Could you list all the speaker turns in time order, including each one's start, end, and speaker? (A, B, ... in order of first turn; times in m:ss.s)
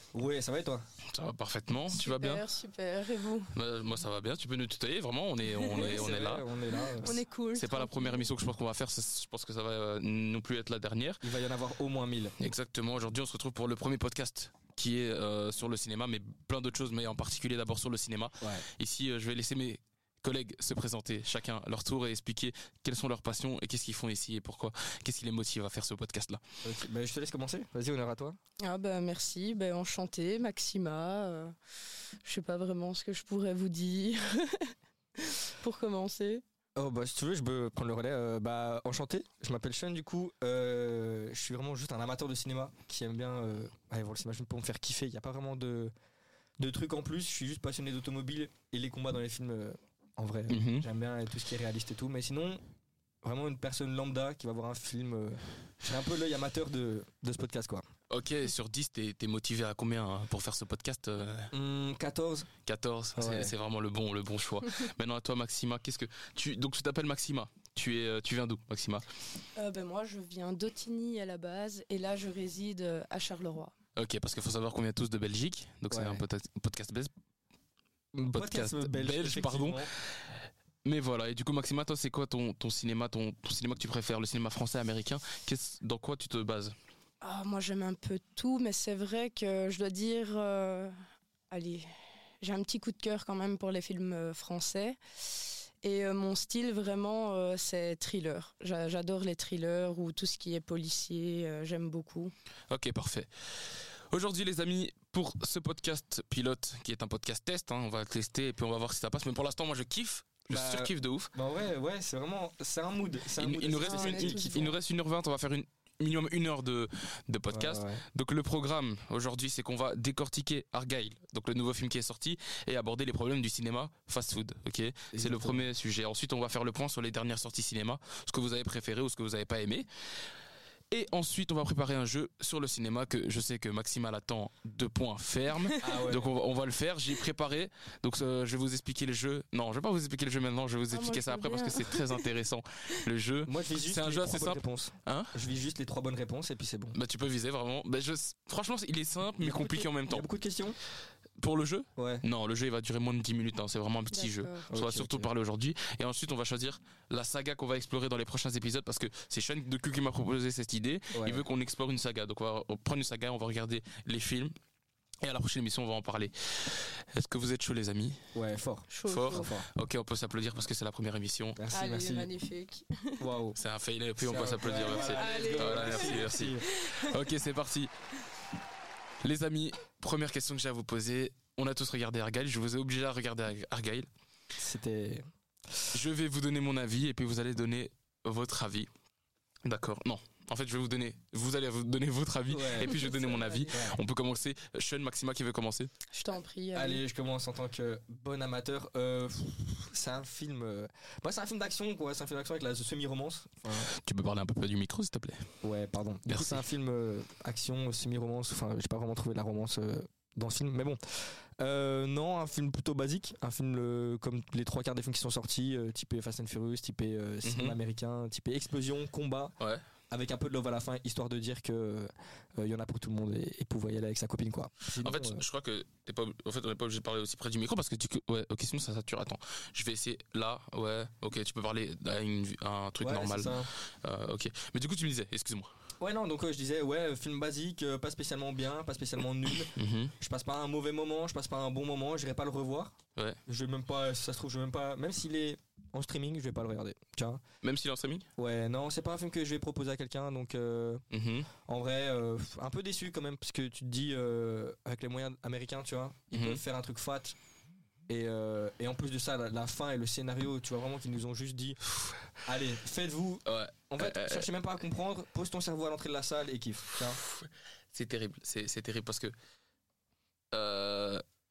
0:00.1-0:00.8 A
0:01.0-0:02.4 B
0:01.9-0:03.5 C
0:03.5-0:06.4 B
0:05.4-0:06.0 C
0:05.7-0:07.2 A
0:06.8-0:08.3 C
0:07.0-0:11.2 B
0:11.2-0:12.4 A
0:12.4-0:26.4 B
0:18.4-0:18.6 A
0:26.6-0:28.4 A
0:28.6-0:31.5 C
0:32.2-0:36.4 C
0:36.8-0:45.9 A
0:46.6-0:52.6 A
0:50.5-0:50.9 B
0:53.2-0:57.8 A
0:58.1-1:01.5 B
1:01.5-1:02.5 A
1:02.7-1:09.0 B
1:03.2-1:03.5 A
1:09.6-1:13.7 C
1:14.0-1:17.1 B
1:15.9-1:16.2 A
1:18.1-1:19.9 A
1:18.3-1:19.9 B
1:20.8-1:26.8 B
1:27.2-1:31.0 C
1:31.5-1:31.9 C
1:32.4-1:42.3 C
1:42.7-1:51.3 B
1:50.5-1:54.7 A
1:53.4-2:09.9 B
1:53.8-1:54.8 C
1:57.5-1:58.0 A
2:05.1-2:05.6 A
2:10.9-2:25.3 B
2:15.5-2:16.0 C
2:15.8-2:16.3 A
2:20.9-2:22.3 C
2:23.4-2:27.0 A
2:26.9-2:30.3 B
2:29.4-2:30.8 A
2:31.4-2:44.5 B
2:32.0-2:32.2 A
2:34.1-2:34.7 C
2:34.7-2:35.3 A
2:41.1-2:41.4 A
2:45.2-2:48.2 B
2:48.3-2:49.7 A
2:48.9-2:49.5 C
2:49.1-2:51.6 B
2:51.6-2:52.3 A
2:51.7-2:53.2 C
2:53.2-2:53.6 A
2:53.6-2:57.9 B
2:54.2-2:56.6 A
2:54.8-2:57.1 C
2:59.2-3:04.1 B
3:04.6-3:05.2 A
3:05.9-3:08.9 B
3:09.6-3:15.9 B
3:12.5-3:12.9 A
3:12.8-3:13.8 C
3:13.7-3:14.0 A
3:16.1-3:17.0 C
3:16.7-3:23.9 A
3:23.8-3:25.5 B
3:25.6-3:39.5 A
3:26.3-3:26.6 B
3:37.4-3:37.8 B
3:40.1-3:45.4 A
3:45.0-3:55.7 B
3:53.0-3:53.7 A
3:56.0-4:07.4 A
3:59.7-4:00.1 B
4:07.6-4:08.3 B
4:08.4-4:11.0 A
4:11.1-4:11.5 B
4:11.6-4:17.4 A
4:16.3-4:16.6 B
4:18.1-4:21.8 A
4:22.4-4:27.2 A
4:23.5-4:24.5 B
4:27.1-4:29.3 B
4:30.5-4:31.2 B